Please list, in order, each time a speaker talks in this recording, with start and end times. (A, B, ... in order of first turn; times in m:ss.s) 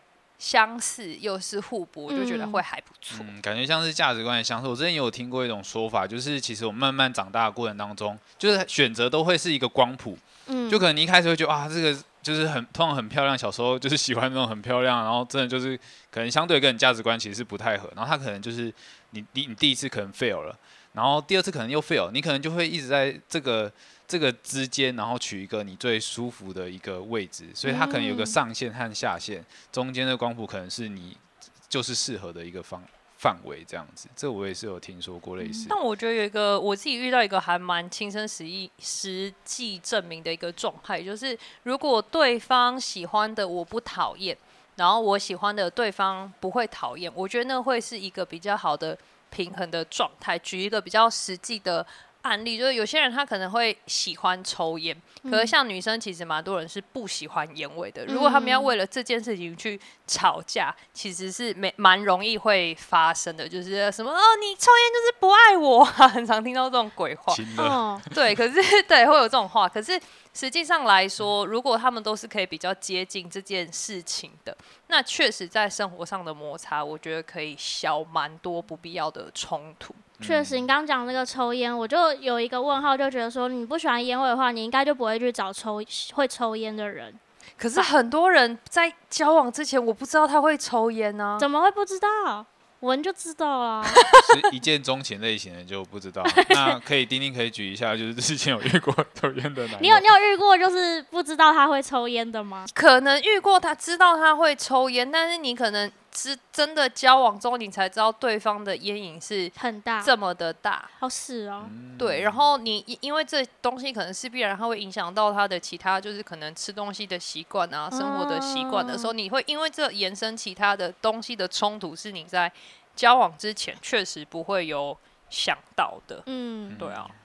0:00.4-0:03.3 A
0:02.1-0:02.6 B
0:03.1-0:35.8 C
0:10.5-0:10.8 B
0:27.6-0:28.4 B
0:35.4-0:35.7 B
0:35.7-1:07.5 A
0:55.2-0:55.5 B
0:58.1-0:58.7 B
1:07.3-1:08.2 C
1:07.6-1:08.1 B
1:08.1-1:20.1 A
1:20.2-1:20.7 C
1:20.2-1:27.2 B
1:27.6-1:31.5 A
1:31.4-1:34.1 B
1:33.9-1:34.4 A
1:34.2-1:40.1 C
1:36.3-1:36.8 B
1:39.8-1:42.7 B
1:42.7-1:50.9 A
1:49.6-1:50.1 B
1:51.0-1:51.7 B
1:51.6-1:52.5 C
1:52.0-2:06.2 A
1:57.9-1:59.1 B
2:06.3-2:06.8 B
2:06.7-2:07.1 C
2:06.8-2:07.1 A